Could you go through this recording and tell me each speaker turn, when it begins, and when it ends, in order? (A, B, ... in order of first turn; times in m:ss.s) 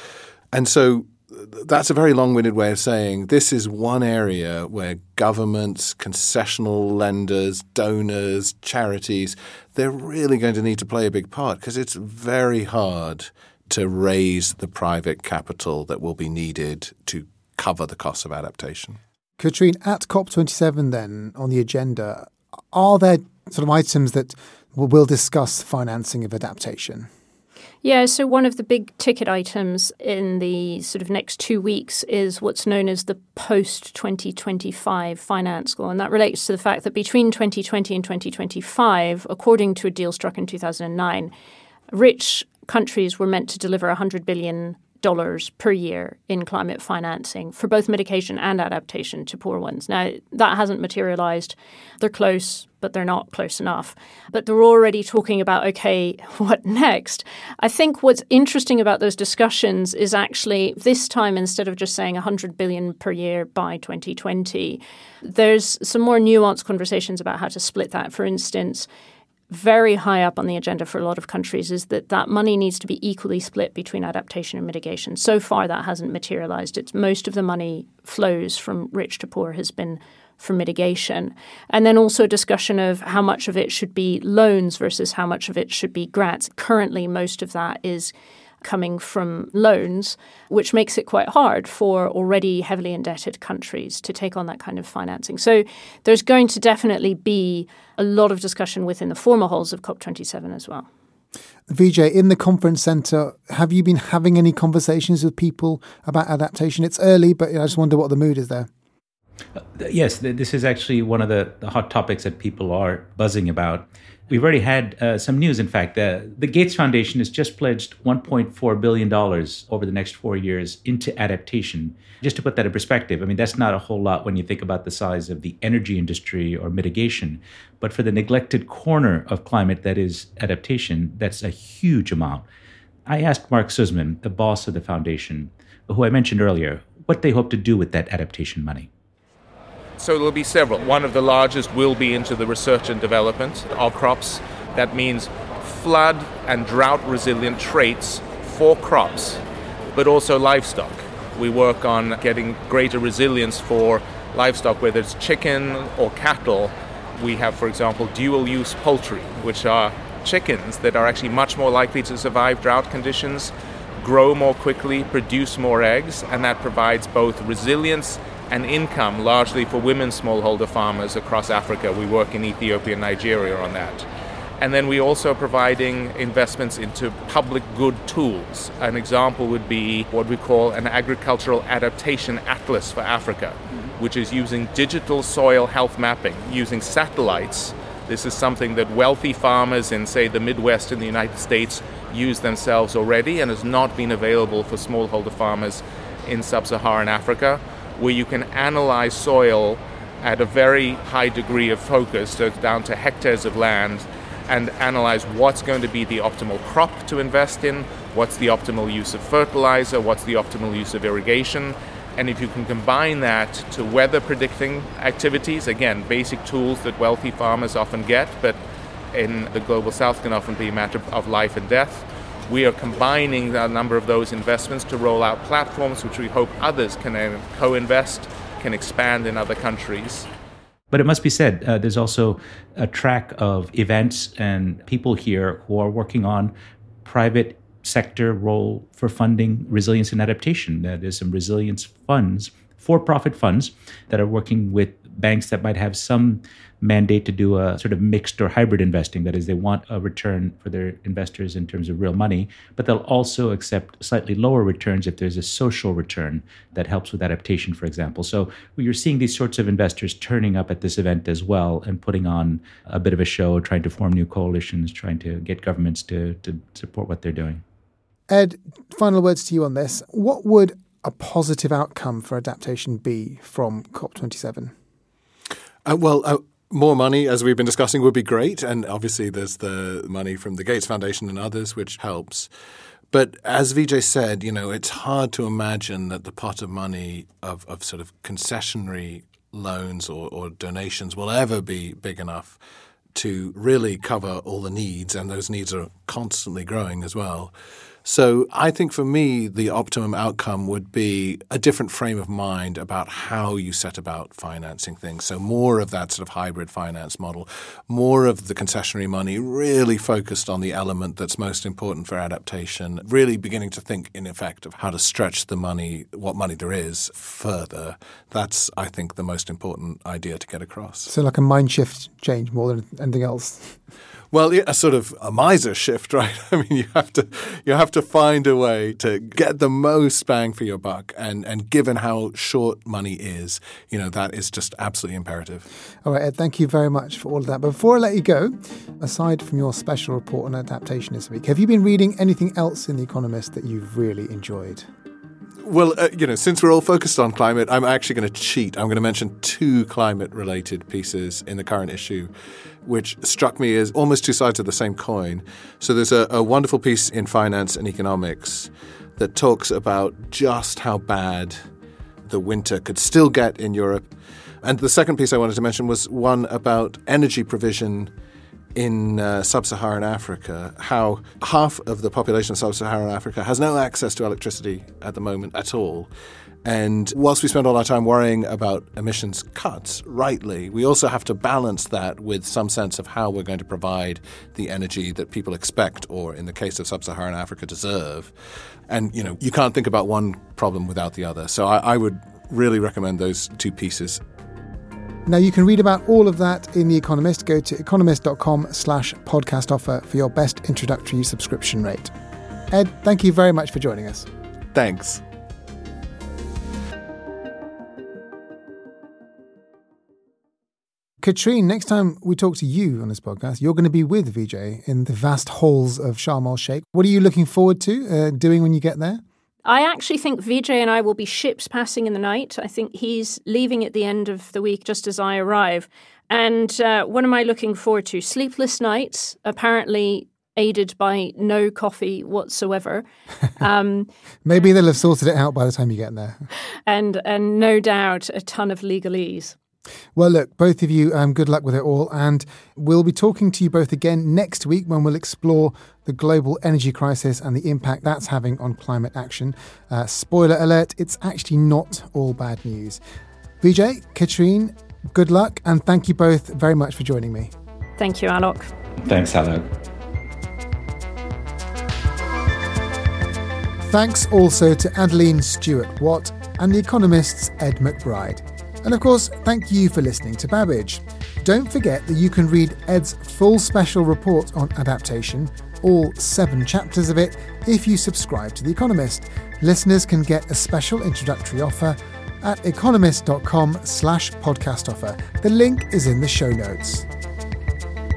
0:00.5-0:19.0 A
0:19.4-0:27.1 B
0:27.8-0:41.3 C
0:41.9-1:08.9 C
1:09.5-1:28.1 C
1:28.6-1:40.9 C
1:41.7-1:48.7 B
1:49.6-2:12.4 D
2:13.1-2:18.9 D
2:20.0-2:29.4 E
2:29.9-2:54.0 E
2:54.6-3:38.6 E
3:39.1-3:50.3 E
3:50.9-4:27.6 D
4:28.3-4:34.7 B
4:35.8-4:42.5 A
4:43.1-4:52.6 A
4:53.1-4:57.5 A
4:58.0-5:21.1 A
5:21.1-5:23.8 B
5:24.3-5:35.7 A
5:36.0-5:44.9 B
5:45.6-5:52.3 A
5:52.8-6:01.6 A
6:02.2-6:04.1 A
6:04.6-6:08.1 A
6:08.8-6:16.1 A
6:16.6-6:28.3 A
6:28.9-6:34.2 A
6:35.2-6:42.1 B
6:42.7-6:44.3 B
6:44.7-6:45.2 A
6:51.2-6:59.2 B
6:59.6-7:14.1 C
7:14.4-7:16.5 B
7:16.9-7:19.6 C
7:20.1-7:33.0 B
7:33.6-7:37.5 B
7:38.0-7:38.7 C
7:39.0-7:39.7 D
7:43.8-8:07.1 B